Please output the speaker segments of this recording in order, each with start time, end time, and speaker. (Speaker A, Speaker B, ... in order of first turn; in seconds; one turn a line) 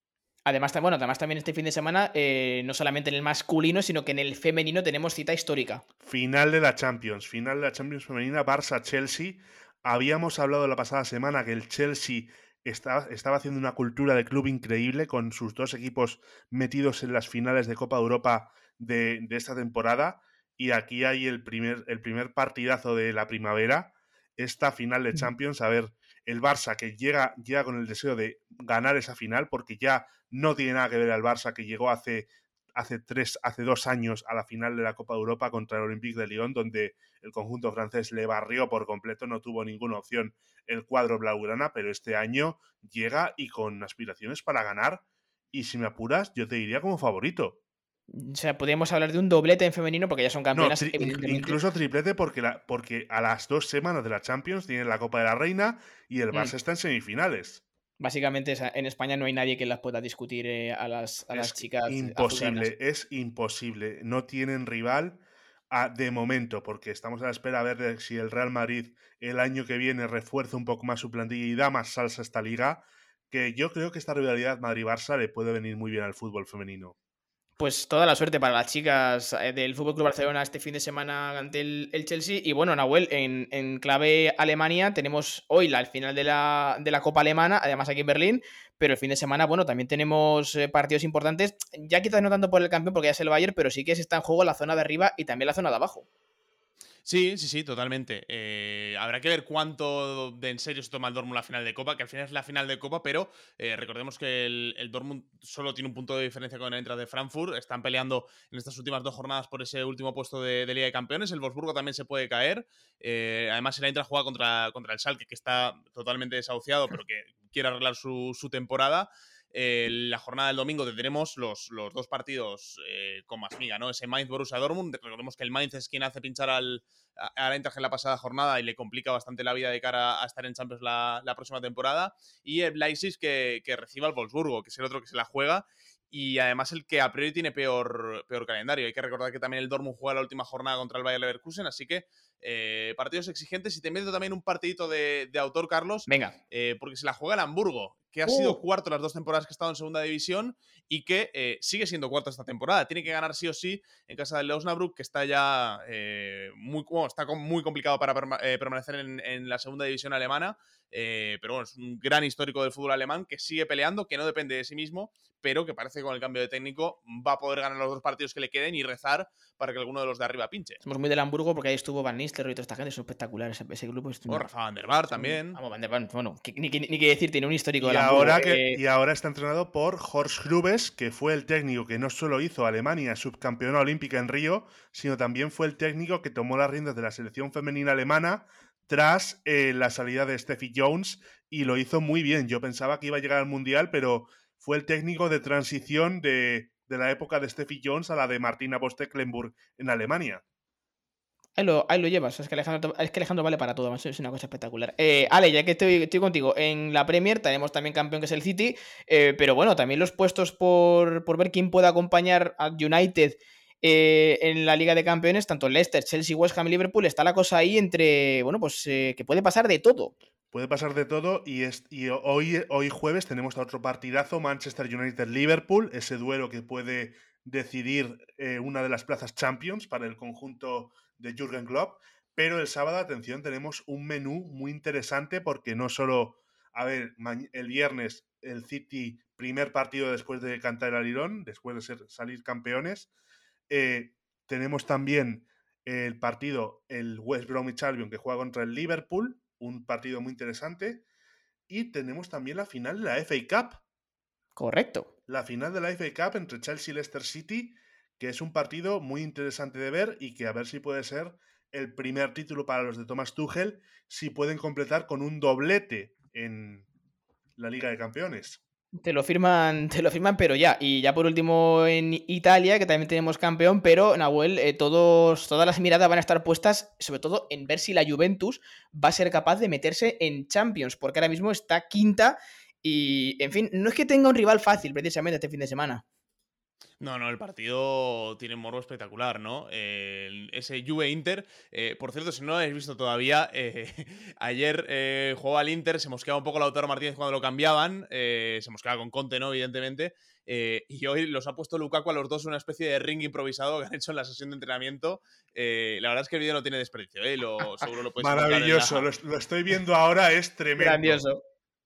Speaker A: 0.5-5.8
Speaker B: 6.0-47.6
Speaker A: 48.1-51.6
Speaker B: 50.5-57.6
Speaker A: 58.0-62.7
Speaker B: 61.3-77.0
Speaker A: 77.6-96.1
Speaker C: 97.0-170.8
Speaker A: 146.1-146.3
Speaker A: 148.3-148.6
Speaker A: 170.8-174.5
Speaker C: 174.3-175.6
Speaker A: 175.1-178.8
Speaker B: 177.8-200.4
Speaker A: 201.6-220.2
Speaker B: 220.5-243.1
Speaker B: 243.7-251.0
Speaker B: 251.7-253.8
Speaker A: 254.6-255.1
Speaker B: 255.3-266.9
Speaker B: 267.6-268.6
Speaker A: 269.0-286.0
Speaker C: 287.0-309.1
Speaker B: 308.2-311.2
Speaker A: 310.8-311.4